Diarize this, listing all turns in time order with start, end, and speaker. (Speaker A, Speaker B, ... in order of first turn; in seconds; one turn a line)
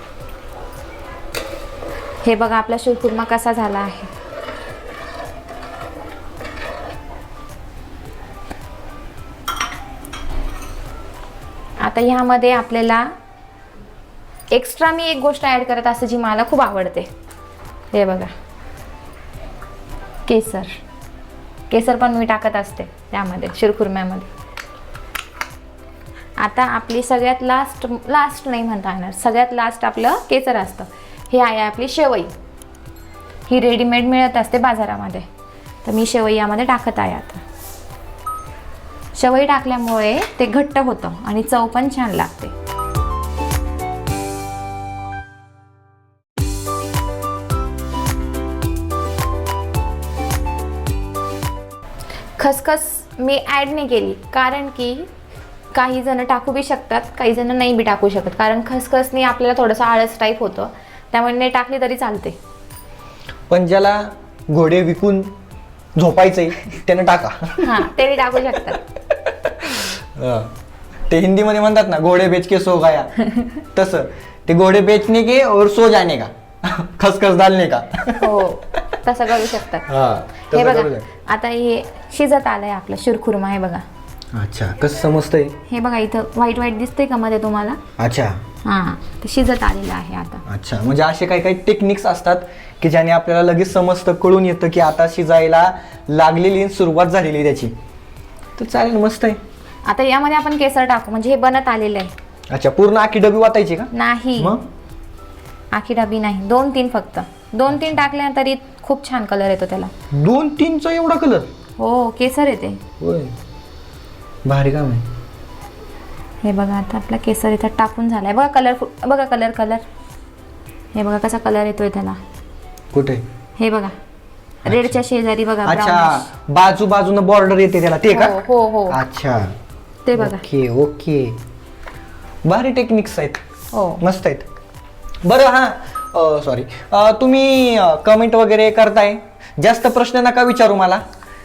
Speaker A: 2.2-4.1
Speaker A: 11.8-13.1
Speaker A: 14.5-17.1
Speaker A: 17.9-18.3
Speaker A: 20.2-20.8
Speaker A: 21.7-24.3
Speaker A: 26.4-32.3
Speaker A: 33.5-35.2
Speaker A: 35.8-37.4
Speaker A: 39.1-42.5
Speaker A: 52.4-55.1
Speaker A: 55.7-62.4
Speaker B: 63.5-65.3
Speaker B: 66.0-67.8
Speaker A: 67.6-68.8
Speaker B: 69.3-70.5
Speaker B: 71.1-78.3
Speaker A: 78.2-79.9
Speaker B: 79.9-81.1
Speaker A: 80.5-83.8
Speaker B: 84.3-85.6
Speaker A: 85.7-87.8
Speaker B: 88.0-88.4
Speaker A: 88.6-90.4
Speaker B: 90.5-97.7
Speaker B: 98.6-99.4
Speaker A: 99.8-102.1
Speaker B: 102.5-104.6
Speaker A: 103.9-104.5
Speaker A: 105.7-109.9
Speaker B: 110.1-111.5
Speaker A: 111.8-112.8
Speaker B: 113.0-113.3
Speaker B: 114.4-115.0
Speaker A: 116.4-119.8
Speaker A: 120.9-122.2
Speaker B: 122.9-123.2
Speaker A: 123.6-124.0
Speaker B: 124.6-125.0
Speaker A: 124.7-126.2
Speaker B: 125.6-128.4
Speaker A: 128.1-129.0
Speaker B: 128.9-129.5
Speaker A: 130.1-130.4
Speaker B: 130.1-131.4
Speaker B: 132.4-133.4
Speaker A: 133.7-134.0
Speaker B: 134.0-134.4
Speaker B: 135.2-141.0